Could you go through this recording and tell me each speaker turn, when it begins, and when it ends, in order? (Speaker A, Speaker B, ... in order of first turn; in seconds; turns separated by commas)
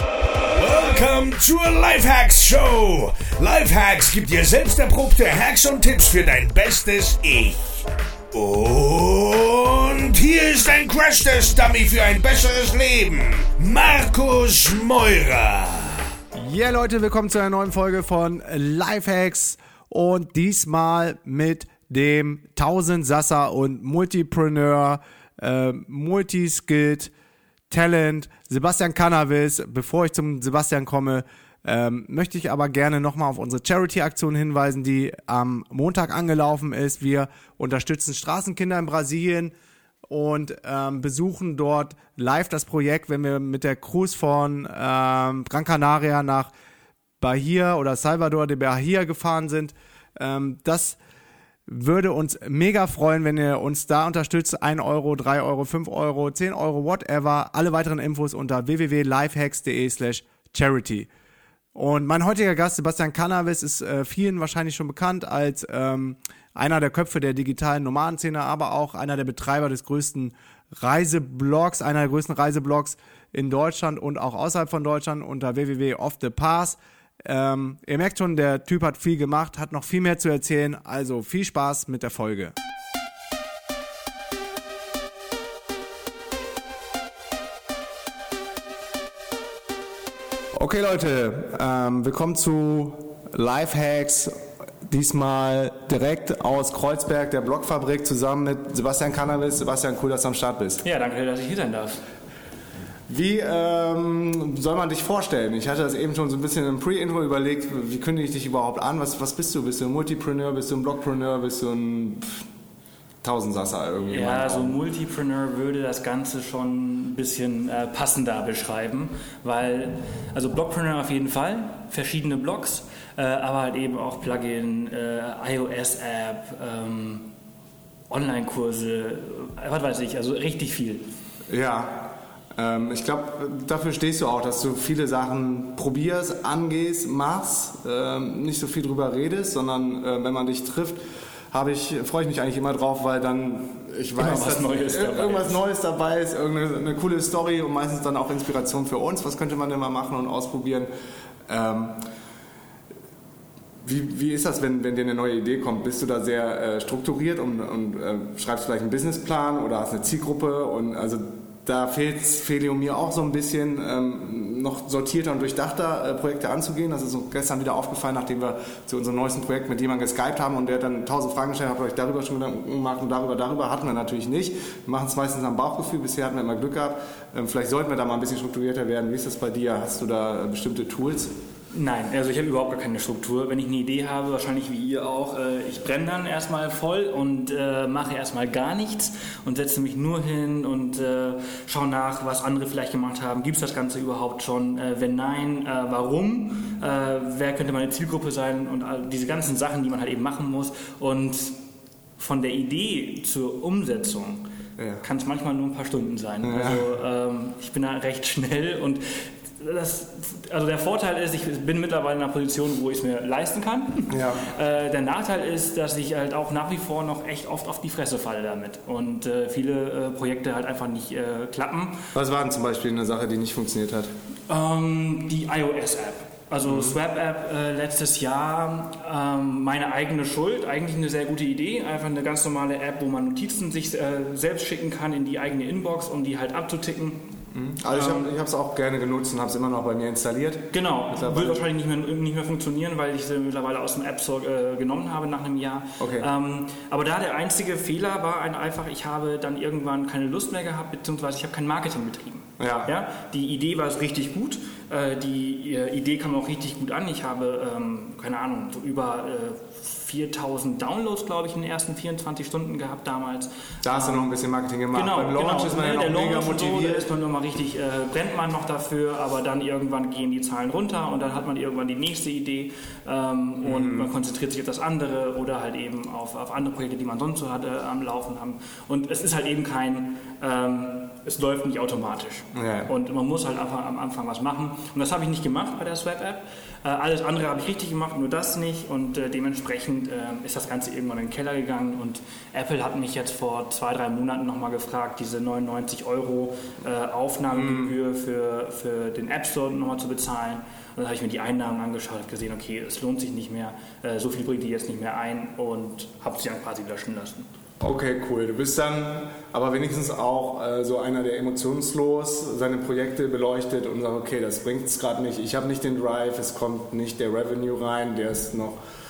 Speaker A: 0.4-7.6, Speaker A: 8.3-16.0, Speaker B: 16.4-27.1, Speaker B: 27.7-39.5, Speaker B: 40.1-46.5, Speaker B: 47.2-51.0, Speaker B: 51.7-61.1, Speaker B: 61.8-82.5, Speaker B: 90.5-100.8, Speaker C: 100.8-102.0, Speaker B: 103.1-112.5, Speaker B: 113.2-114.8, Speaker C: 114.1-127.3, Speaker C: 128.1-131.1, Speaker B: 131.5-141.0, Speaker B: 141.5-150.9, Speaker C: 144.2-145.6, Speaker B: 151.5-152.0, Speaker B: 153.8-181.3, Speaker C: 181.7-201.6, Speaker C: 202.2-204.5, Speaker B: 204.8-205.0, Speaker C: 205.0-222.1, Speaker B: 206.4-206.9, Speaker B: 214.1-214.4, Speaker B: 222.1-224.1, Speaker C: 224.5-237.3, Speaker B: 226.7-227.0, Speaker B: 237.5-241.6, Speaker C: 237.9-238.3, Speaker C: 240.7-264.3, Speaker B: 246.0-246.3, Speaker B: 252.6-252.9, Speaker B: 263.8-267.1, Speaker C: 264.9-307.5, Speaker B: 273.6-274.1, Speaker B: 282.5-282.9, Speaker B: 297.5-297.9, Speaker B: 307.8-318.8